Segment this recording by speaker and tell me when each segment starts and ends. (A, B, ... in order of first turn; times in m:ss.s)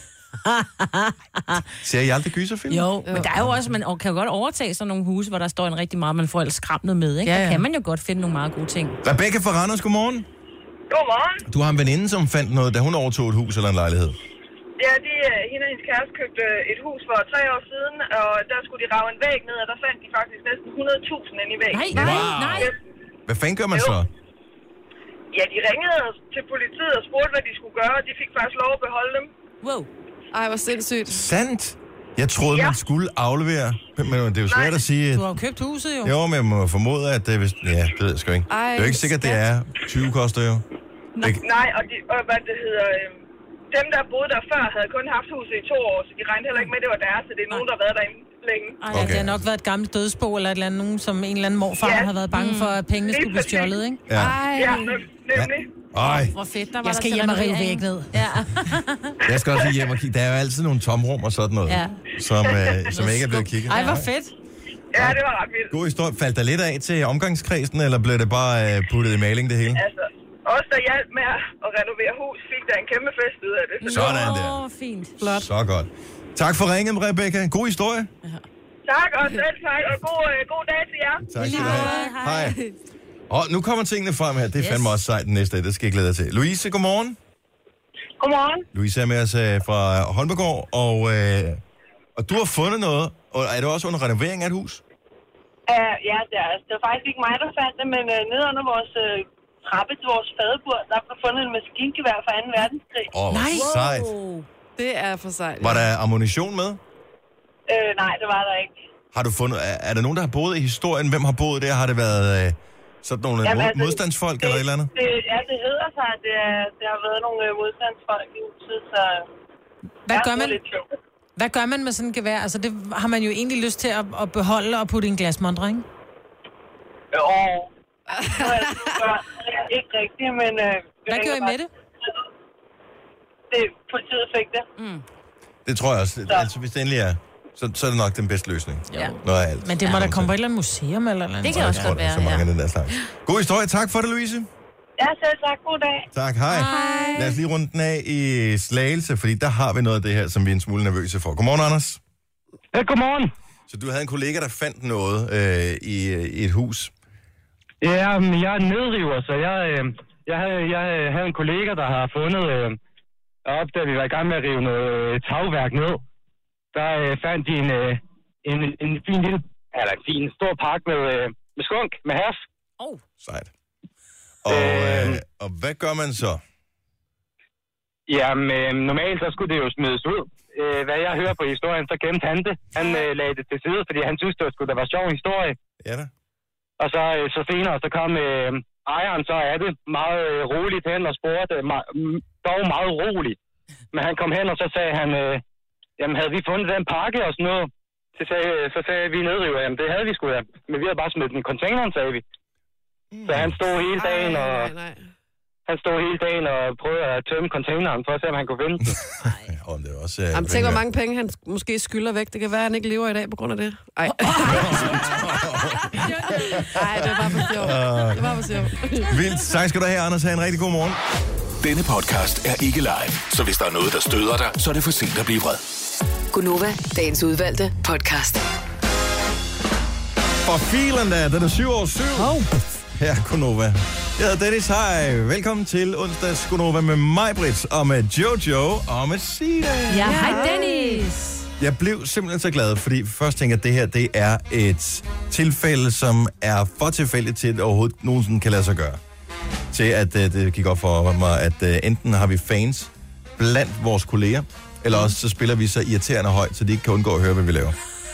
0:00.4-0:01.6 A
0:01.8-0:03.6 B
0:02.7-0:09.0 A
0:07.2-0:07.6 C
0:09.0-0:10.3 B
0:10.9-0:11.4 D
0:11.5-0:14.2 B
0:14.8-0:22.8 D
0:21.7-0:22.7 A
0:21.9-0:22.7 B
0:23.3-0:24.1 B
0:25.3-0:29.3 D
0:29.6-0:29.9 A
0:30.3-0:31.2 E
0:31.1-0:35.3 B
0:34.5-0:34.8 D
0:35.1-0:36.1 C
0:36.0-0:40.6 B
0:38.5-0:39.4 E
0:41.4-0:43.2 D
0:43.7-0:48.8 D
0:48.8-0:49.3 A
0:48.9-0:49.4 B
0:48.9-0:54.6 C
0:51.8-0:52.1 D
0:52.3-0:52.8 A
0:53.0-0:53.8 D
0:54.1-0:54.4 B
0:54.2-0:54.8 A
0:54.5-0:55.7 D
0:55.3-0:56.4 B
0:56.0-0:59.2 A
0:56.8-0:58.2 C
0:59.2-1:04.1 B
1:01.7-1:02.0 A
1:02.9-1:03.7 A
1:03.6-1:04.3 C
1:04.9-1:05.7 D
1:05.7-1:09.8 B
1:09.7-1:14.3 D
1:13.8-1:15.2 A
1:13.8-1:14.6 B
1:15.2-1:15.5 E
1:15.4-1:18.1 B
1:18.8-1:21.2 D
1:21.2-1:22.6 B
1:21.4-1:22.6 A
1:21.4-1:22.1 C
1:21.6-1:22.7 E
1:23.3-1:27.2 B
1:24.6-1:24.9 A
1:28.2-1:28.6 D
1:28.7-1:31.6 B
1:32.2-1:34.8 B
1:35.7-1:43.0 D
1:43.1-1:44.1 B
1:43.3-1:44.4 A
1:44.8-1:45.9 E
1:45.6-1:46.8 B
1:47.7-1:48.7 D
1:49.1-1:54.9 B
1:53.4-1:59.2 D
2:00.0-2:00.6 C
2:00.1-2:00.8 D
2:01.4-2:05.8 C
2:07.1-2:07.7 D
2:08.1-2:09.0 E
2:08.3-2:11.5 D
2:11.1-2:11.7 C
2:13.5-2:14.6 D
2:14.8-2:15.0 A
2:15.6-2:20.3 B
2:18.9-2:19.2 A
2:18.9-2:22.0 C
2:21.4-2:22.5 A
2:21.5-2:24.5 B
2:25.0-2:26.0 D
2:26.1-2:32.0 B
2:26.5-2:27.3 C
2:26.7-2:27.2 E
2:32.7-2:33.3 F
2:33.7-2:36.9 B
2:37.8-2:42.8 F
2:43.4-2:46.0 F
2:46.7-2:52.4 F
2:53.2-2:53.5 B
2:54.4-2:56.4 B
2:54.5-2:55.2 F
2:58.1-3:05.6 F
3:02.8-3:03.0 A
3:05.8-3:06.1 B
3:06.8-3:13.4 F
3:13.9-3:15.4 F
3:16.0-3:22.2 F
3:23.1-3:23.6 B
3:23.3-3:24.7 F
3:24.0-3:25.0 E
3:25.7-3:28.9 F
3:28.8-3:30.8 B
3:30.3-3:35.2 E
3:34.4-3:38.4 B
3:36.0-3:39.2 E
3:39.0-3:41.0 B
3:41.6-3:45.6 G
3:46.3-3:48.4 H
3:50.4-3:52.4 B
3:52.2-3:52.5 C
3:52.9-4:00.0 B
3:59.9-4:00.6 E
3:59.9-4:01.2 A
4:00.0-4:01.1 C
4:01.6-4:09.0 B
4:09.7-4:17.7 B